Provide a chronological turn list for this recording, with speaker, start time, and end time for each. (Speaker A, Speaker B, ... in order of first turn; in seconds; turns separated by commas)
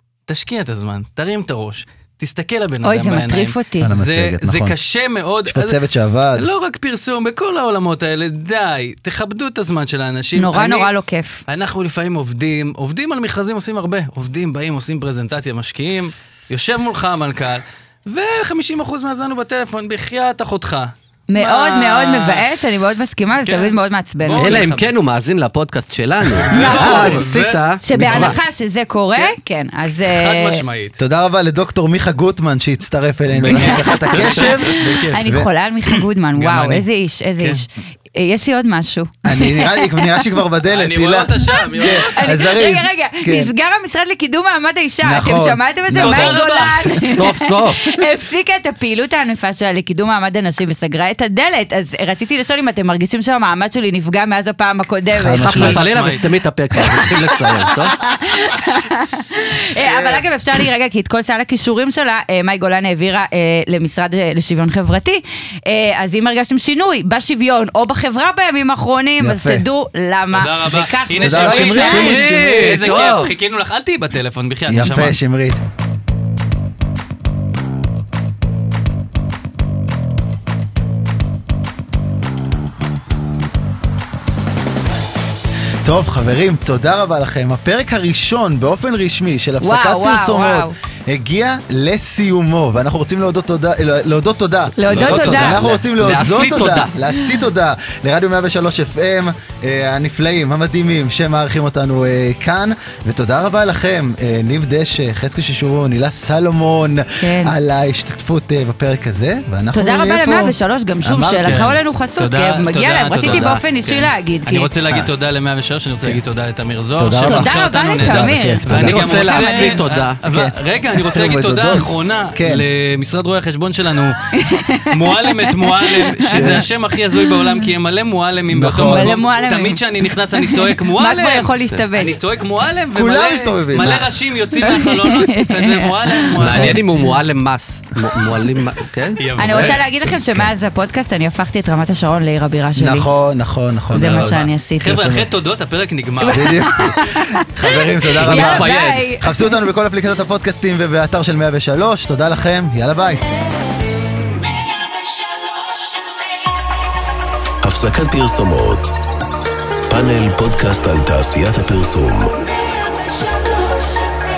Speaker A: 0.3-5.8, Speaker B: 2.8-3.9, Speaker C: 3.8-4.7, Speaker C: 5.5-6.5, Speaker A: 6.3-10.9, Speaker B: 10.3-11.4, Speaker A: 11.5-22.4, Speaker B: 21.3-24.7, Speaker A: 23.4-24.9, Speaker D: 24.3-28.4, Speaker A: 26.4-28.4, Speaker B: 26.5-27.3, Speaker B: 27.8-30.6, Speaker A: 30.0-31.0, Speaker C: 31.0-35.5, Speaker A: 33.3-34.7, Speaker B: 33.4-40.2, Speaker A: 36.3-36.9, Speaker A: 37.4-37.6, Speaker C: 39.2-43.5, Speaker A: 40.7-42.5, Speaker B: 41.6-55.8, Speaker C: 45.0-46.4, Speaker A: 45.9-47.3, Speaker D: 47.0-48.0, Speaker C: 55.1-55.8, Speaker D: 55.4-58.0, Speaker A: 55.5-56.3, Speaker B: 56.8-72.4, Speaker A: 59.8-60.2, Speaker C: 69.2-69.7, Speaker A: 70.3-75.2, Speaker C: 71.2-72.9, Speaker D: 71.7-73.3, Speaker C: 74.7-75.6, Speaker C: 85.8-111.8, Speaker B: 89.6-90.7, Speaker B: 94.8-95.6, Speaker D: 94.9-96.9, Speaker B: 107.2-107.5, Speaker B: 109.7-114.7, Speaker A: 111.4-136.9, Speaker D: 113.2-113.6, Speaker C: 117.0-119.1, Speaker B: 117.2-119.8, Speaker D: 118.7-120.2, Speaker C: 120.3-122.6, Speaker B: 124.3-127.7, Speaker C: 126.3-126.6, Speaker C: 128.5-129.1, Speaker B: 128.8-129.8, Speaker B: 130.3-132.2, Speaker C: 132.9-134.1, Speaker B: 134.6-137.1, Speaker D: 136.4-139.8, Speaker A: 139.2-139.8, Speaker B: 139.4-143.1, Speaker C: 140.0-140.5, Speaker C: 142.8-145.2, Speaker B: 143.9-145.0, Speaker A: 143.9-146.5, Speaker B: 146.2-149.6, Speaker C: 146.3-153.2, Speaker D: 148.2-149.1, Speaker E: 157.6-158.9, Speaker E: 159.9-162.3